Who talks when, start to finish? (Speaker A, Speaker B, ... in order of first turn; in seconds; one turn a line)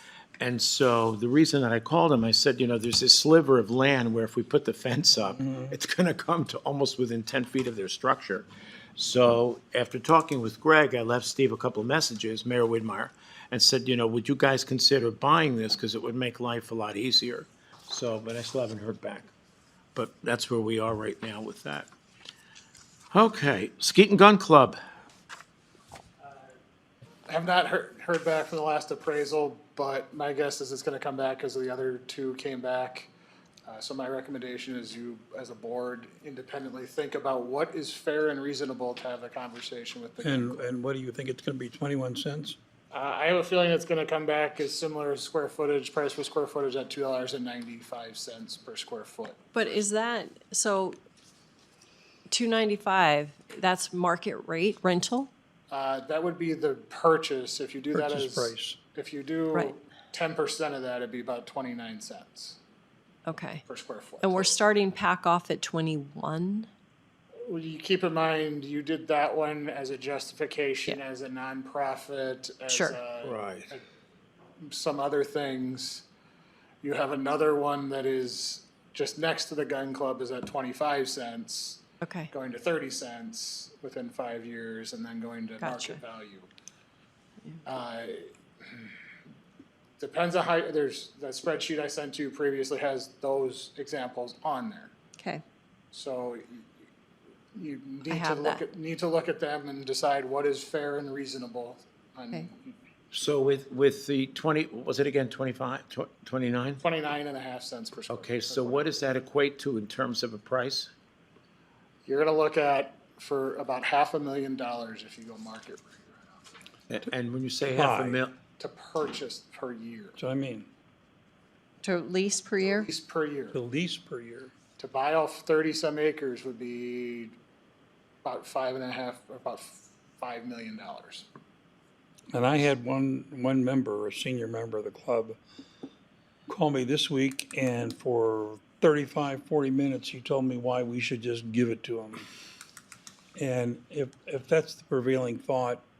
Speaker A: 0.4-19.3
Speaker A: 19.9-21.9
Speaker A: 23.1-24.8
Speaker B: 26.2-26.5
Speaker B: 27.3-33.1
Speaker B: 33.7-40.6
Speaker C: 40.2-42.6
Speaker B: 42.9-49.8
Speaker D: 49.5-51.0
Speaker D: 52.3-55.3
Speaker B: 55.7-62.6
Speaker C: 57.9-58.8
Speaker D: 63.2-63.6
Speaker B: 63.6-64.6
Speaker D: 64.2-66.7
Speaker B: 67.5-73.8
Speaker D: 72.7-73.0
Speaker A: 73.2-73.7
Speaker B: 74.6-76.0
Speaker B: 76.8-86.5
Speaker D: 82.0-82.3
Speaker D: 85.6-86.0
Speaker B: 87.6-88.8
Speaker B: 90.0-94.9
Speaker D: 95.2-95.4
Speaker B: 95.9-96.7
Speaker B: 97.5-102.7
Speaker D: 98.1-98.6
Speaker A: 103.1-106.8
Speaker B: 106.8-109.0
Speaker A: 108.1-110.9
Speaker B: 112.0-116.5
Speaker A: 116.9-118.4
Speaker C: 117.7-118.2
Speaker B: 118.6-120.2
Speaker C: 120.2-120.7
Speaker D: 121.8-122.9
Speaker B: 122.6-123.6
Speaker C: 123.5-124.5
Speaker B: 124.8-127.3
Speaker B: 128.2-131.3
Speaker C: 132.3-135.4
Speaker C: 136.5-142.3
Speaker C: 143.3-145.9